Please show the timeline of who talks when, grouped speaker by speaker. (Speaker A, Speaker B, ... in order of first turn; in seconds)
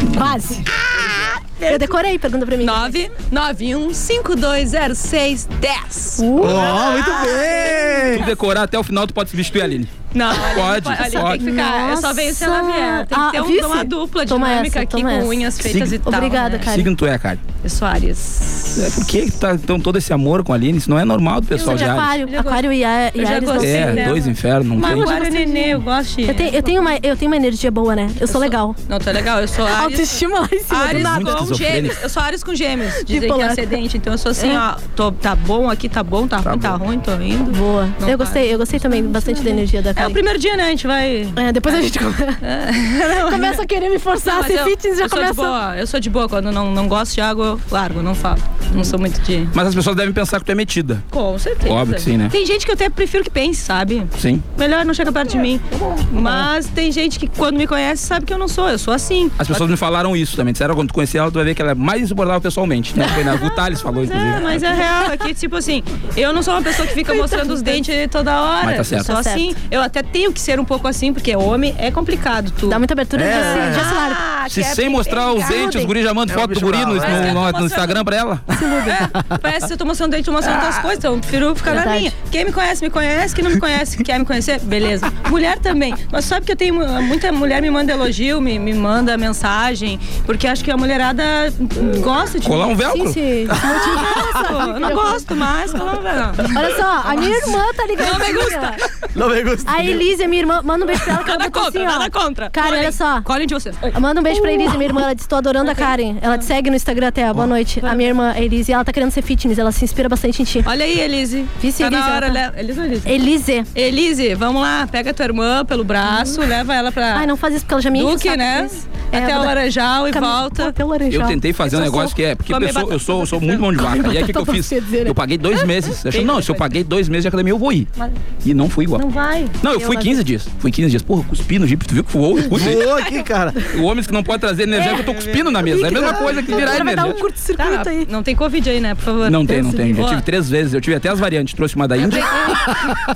Speaker A: 0.1-0.7, 1.7-3.0, 6.2-6.8, 11.2-16.9, 21.6-24.2, 24.8-28.8, 29.7-31.5, 33.0-33.8, 34.4-34.6, 37.5-40.2, 41.4-42.4, 43.2-45.5, 66.9-67.8, 69.0-69.5, 72.7-74.2, 75.6-75.9, 78.5-79.0, 81.7-82.1, 92.9-95.3, 96.5-98.8, 99.7-103.3, 103.9-110.7, 111.6-112.4, 113.0-113.7, 116.1-116.4, 117.1-121.4, 123.8-125.2, 129.7-130.2, 134.8-138.1, 139.5-140.0
Speaker B: 0.9-2.0, 2.6-8.2, 10.1-16.7, 17.6-19.1, 21.5-26.9, 28.3-41.9, 42.4-43.6, 44.2-49.5, 51.1-59.6, 63.0-63.5, 64.0-75.9, 77.0-78.0, 78.8-92.7, 93.6-98.9, 101.0-105.0, 105.6-106.5, 107.8-108.2, 110.6-113.2, 113.7-117.3, 117.9-120.7, 121.7-123.9, 126.1-126.8, 128.9-129.5, 134.8-140.2, 142.0-142.9
Speaker C: 6.4-8.3, 36.4-36.8, 73.1-73.9, 76.3-77.4, 99.1-100.1, 132.5-133.6, 135.7-136.5, 142.7-143.0
Speaker D: 8.1-11.4, 15.6-16.0, 16.6-17.4, 18.8-22.1, 23.6-25.2, 30.8-32.0, 49.5-51.0, 51.6-52.3, 54.2-54.4, 59.4-64.8, 68.6-69.1, 74.5-78.4, 92.4-93.2, 121.1-127.9, 128.4-129.0, 129.6-132.9, 133.7-137.2, 139.2-142.5